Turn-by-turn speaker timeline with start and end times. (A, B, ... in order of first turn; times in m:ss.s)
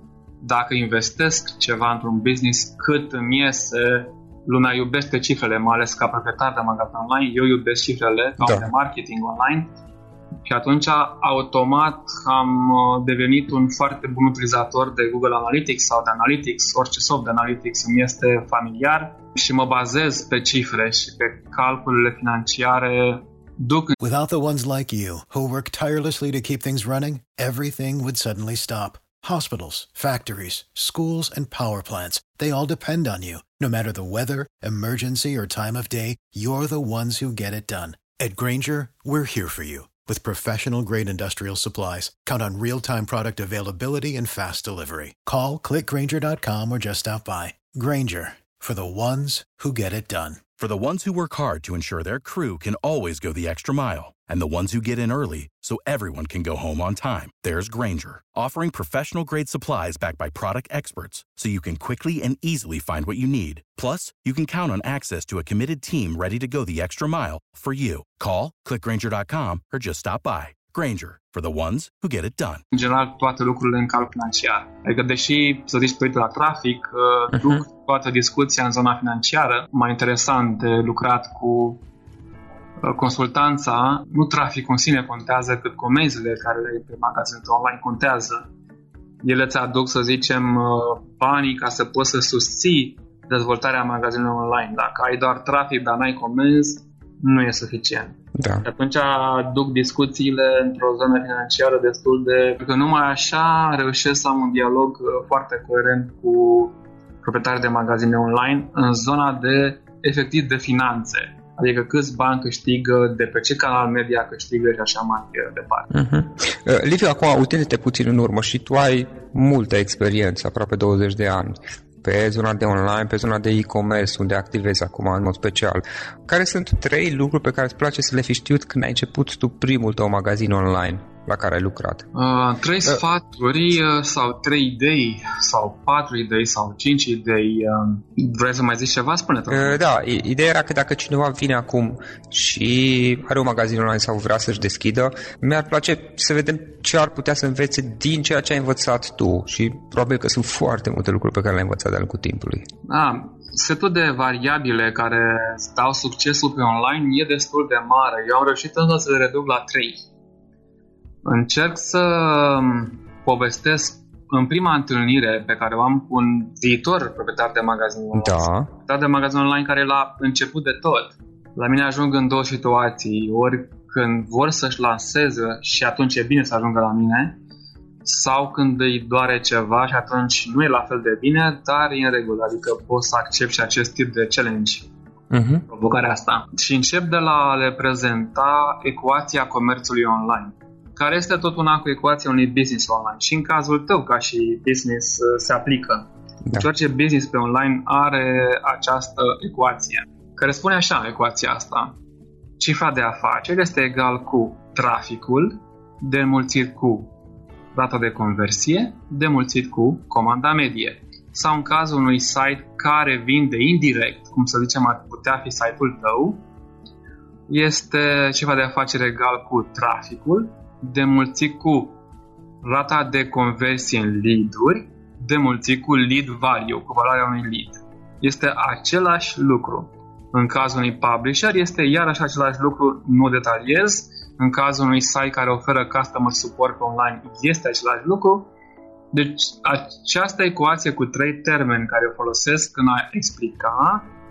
0:00.4-0:09.7 A
0:08.4-0:08.6 B
0:10.4-0:24.0 A
0:24.0-0:50.4 C
0:50.6-1:12.6 D
1:12.7-1:21.8 A
1:17.3-1:17.6 B
1:22.8-1:28.5 A
1:29.2-1:55.9 A
1:38.4-1:38.6 B
1:55.9-2:12.0 B
2:12.1-2:19.8 A
2:19.5-2:32.6 B
2:32.9-2:40.0 A
2:41.2-2:57.4 A
2:48.1-2:48.7 B
2:58.0-3:04.9 A
3:05.3-3:05.6 B
3:05.7-3:21.9 A
3:22.6-3:27.1 A
3:27.7-3:36.4 A
3:37.5-3:42.0 A
3:42.6-3:58.5 A
3:59.1-4:04.1 A